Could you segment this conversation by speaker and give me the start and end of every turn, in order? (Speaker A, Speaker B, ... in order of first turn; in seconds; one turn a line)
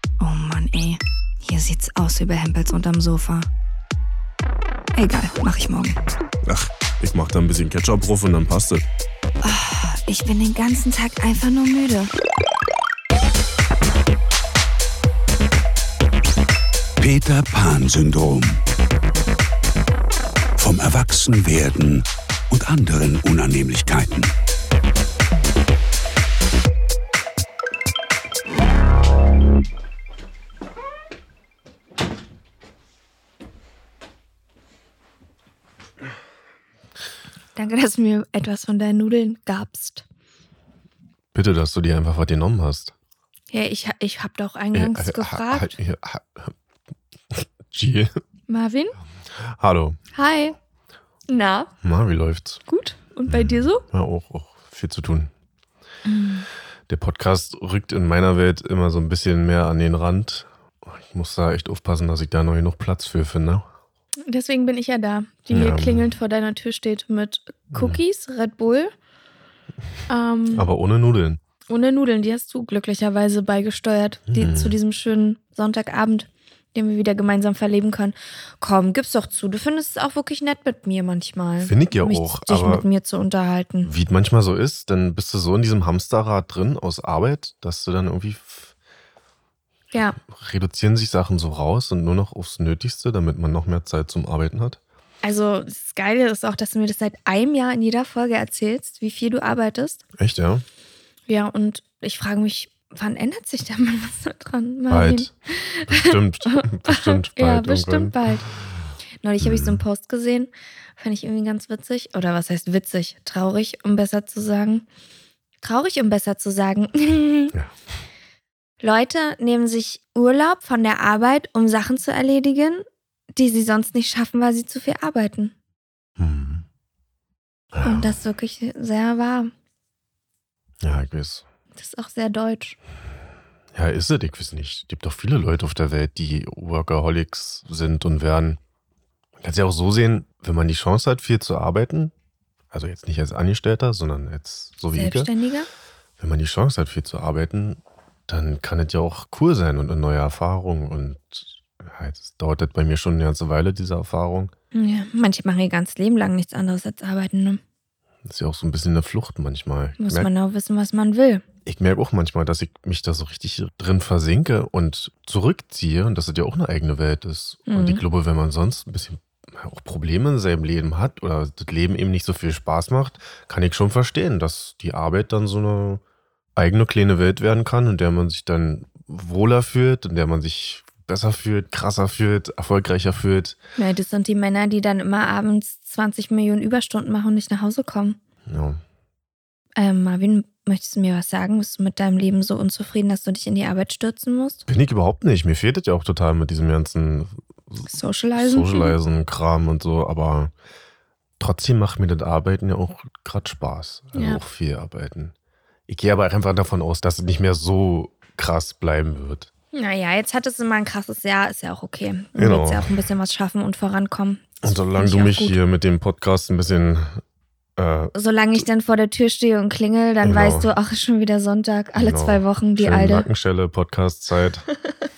Speaker A: 0.2-3.5
Speaker A: 5.0-6.0
Speaker B: 6.5-8.8
Speaker A: 9.4-12.1
Speaker C: 17.0-18.6
Speaker C: 20.6-24.3
Speaker A: 37.6-40.0
Speaker B: 41.3-42.9
Speaker A: 43.5-45.8
Speaker B: 44.7-46.5
Speaker B: 47.3-48.1
Speaker A: 48.5-49.0
Speaker B: 49.4-50.0
Speaker A: 50.1-50.6
Speaker A: 51.3-51.7
Speaker B: 51.8-52.6
Speaker A: 52.7-53.9
Speaker B: 53.3-55.3
Speaker A: 56.0-56.5
Speaker B: 56.9-63.7
Speaker A: 64.3-68.9
Speaker B: 65.5-66.1
Speaker B: 67.7-68.0
Speaker A: 70.1-70.7
Speaker B: 70.5-71.4
Speaker A: 71.7-83.9
Speaker B: 74.3-74.8
Speaker B: 81.6-82.9
Speaker B: 83.8-88.7
Speaker A: 89.9-90.2
Speaker B: 90.2-94.8
Speaker A: 95.2-100.0
Speaker B: 100.2-100.7
Speaker A: 101.3-108.5
Speaker B: 104.9-105.3
Speaker B: 105.9-108.2
Speaker A: 109.2-114.9
Speaker B: 109.4-109.8
Speaker A: 115.6-117.5
Speaker A: 118.8-122.8
Speaker A: 123.4-125.5
Speaker B: 126.2-126.7
Speaker B: 127.7-128.2
Speaker A: 127.8-129.5
Speaker B: 130.8-131.4
Speaker A: 131.8-132.8
Speaker B: 133.7-138.6
Speaker B: 139.4-142.1
Speaker B: 142.7-145.3
Speaker A: 144.9-145.7
Speaker B: 146.2-154.5
Speaker A: 154.7-157.6
Speaker B: 158.2-160.3
Speaker A: 160.0-161.4
Speaker B: 161.7-176.0
Speaker A: 167.7-168.0
Speaker B: 176.6-183.6
Speaker A: 183.8-188.2
Speaker B: 188.5-188.8
Speaker A: 189.8-194.6
Speaker B: 194.7-200.5
Speaker A: 197.9-199.0
Speaker B: 201.4-205.3
Speaker A: 204.2-204.4
Speaker B: 205.9-209.5
Speaker A: 209.7-215.6
Speaker B: 212.4-212.9
Speaker B: 214.6-217.2
Speaker B: 217.8-218.6
Speaker A: 218.1-223.3
Speaker B: 220.2-220.7
Speaker B: 222.0-224.7